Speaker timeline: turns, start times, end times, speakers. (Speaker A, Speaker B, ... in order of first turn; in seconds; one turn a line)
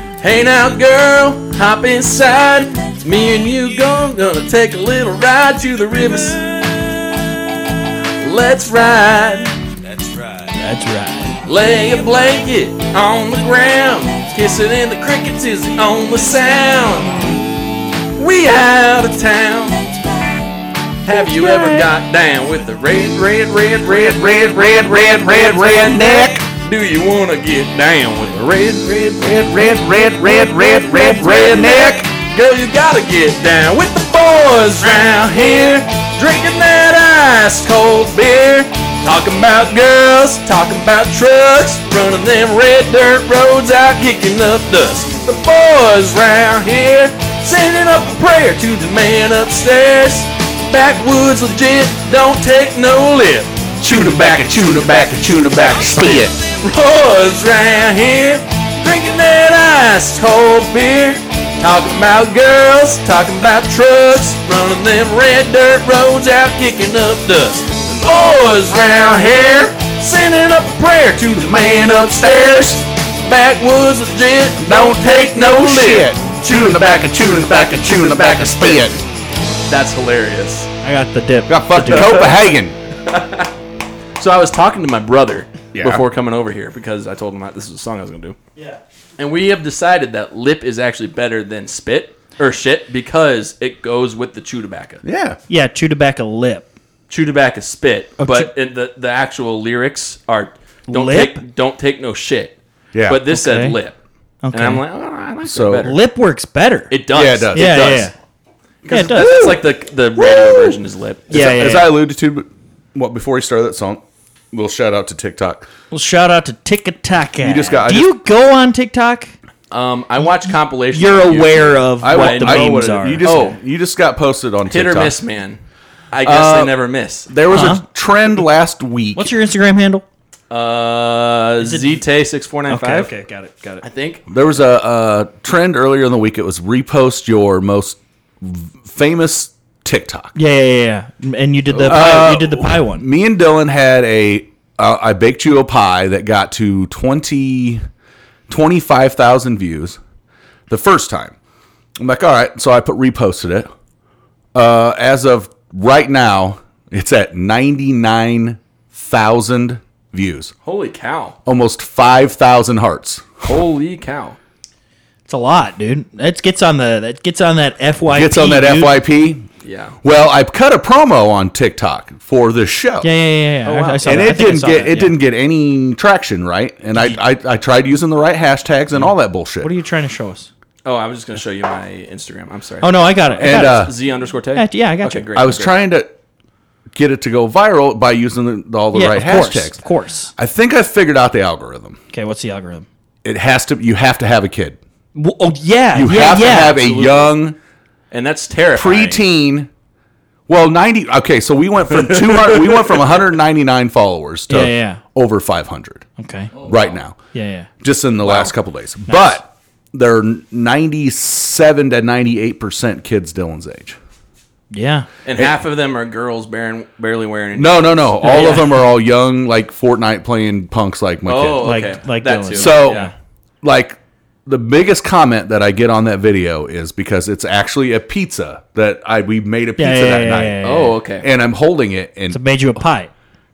Speaker A: 0.2-7.0
Speaker A: 8.2-9.7
Speaker B: 10.5-11.4
Speaker A: 11.4-17.5
Speaker A: 18.1-20.0
Speaker A: 21.0-76.8
Speaker C: 21.4-21.8
Speaker C: 23.9-26.4
Speaker C: 29.2-32.1
Speaker C: 53.8-56.4
Speaker C: 71.8-72.8
Speaker C: 74.6-79.0
Speaker A: 77.6-78.9
Speaker A: 79.7-80.7
Speaker B: 80.8-82.2
Speaker C: 81.5-82.8
Speaker A: 81.8-82.3
Speaker A: 83.0-83.5
Speaker A: 84.2-88.4
Speaker C: 85.7-86.0
Speaker A: 89.2-95.0
Speaker C: 95.0-95.4
Speaker B: 95.5-96.7
Speaker A: 97.1-104.0
Speaker B: 98.2-98.5
Speaker B: 100.9-101.4
Speaker C: 102.9-103.2
Speaker B: 103.3-103.8
Speaker B: 104.4-104.8
Speaker A: 104.5-106.0
Speaker C: 105.4-105.9
Speaker B: 105.8-106.9
Speaker A: 106.9-108.1
Speaker C: 107.1-107.8
Speaker B: 107.5-108.1
Speaker A: 108.8-111.5
Speaker B: 108.9-109.6
Speaker C: 109.2-109.5
Speaker C: 110.2-110.8
Speaker B: 111.3-111.9
Speaker C: 111.3-115.7
Speaker B: 115.9-119.3
Speaker C: 117.4-118.1
Speaker A: 119.7-123.6
Speaker B: 120.9-123.3
Speaker C: 122.0-125.2
Speaker A: 124.7-125.6
Speaker A: 126.1-127.3
Speaker C: 126.2-126.7
Speaker C: 127.3-129.3
Speaker B: 127.5-127.8
Speaker B: 129.2-130.0
Speaker A: 130.5-133.1
Speaker B: 131.6-132.0
Speaker B: 132.7-133.8
Speaker A: 133.8-134.2
Speaker C: 134.3-140.3
Speaker B: 140.3-143.0
Speaker C: 141.7-147.8
Speaker C: 148.5-150.0
Speaker C: 150.7-151.3
Speaker C: 152.0-153.7
Speaker C: 154.5-160.5
Speaker A: 160.6-161.4
Speaker C: 161.4-163.5
Speaker A: 163.4-164.4
Speaker B: 165.3-169.0
Speaker C: 168.1-169.5
Speaker A: 169.6-170.0
Speaker C: 170.0-173.1
Speaker B: 173.0-175.1
Speaker A: 173.7-174.4
Speaker C: 174.0-179.7
Speaker B: 179.0-180.5
Speaker A: 180.8-185.8
Speaker B: 182.8-183.9
Speaker C: 183.4-183.9
Speaker B: 184.5-185.3
Speaker C: 185.3-186.1
Speaker C: 186.9-189.8
Speaker B: 188.9-190.3
Speaker C: 190.4-192.0
Speaker B: 192.1-192.9
Speaker C: 193.2-194.8
Speaker B: 195.1-196.8
Speaker C: 195.9-197.6
Speaker A: 196.5-197.3
Speaker A: 198.1-199.2
Speaker C: 198.7-199.7
Speaker C: 200.5-207.2
Speaker A: 202.0-203.0
Speaker B: 204.5-205.0
Speaker B: 206.2-206.5
Speaker B: 207.3-207.7
Speaker C: 207.8-214.0
Speaker A: 208.2-208.5
Speaker B: 209.1-209.4
Speaker B: 214.7-215.1
Speaker A: 215.2-218.3
Speaker C: 217.5-221.7
Speaker B: 218.2-218.7
Speaker A: 221.2-223.1
Speaker B: 221.6-223.1
Speaker C: 222.5-223.1
Speaker C: 223.6-232.4
Speaker B: 229.8-230.9
Speaker A: 230.6-231.2
Speaker B: 232.3-233.1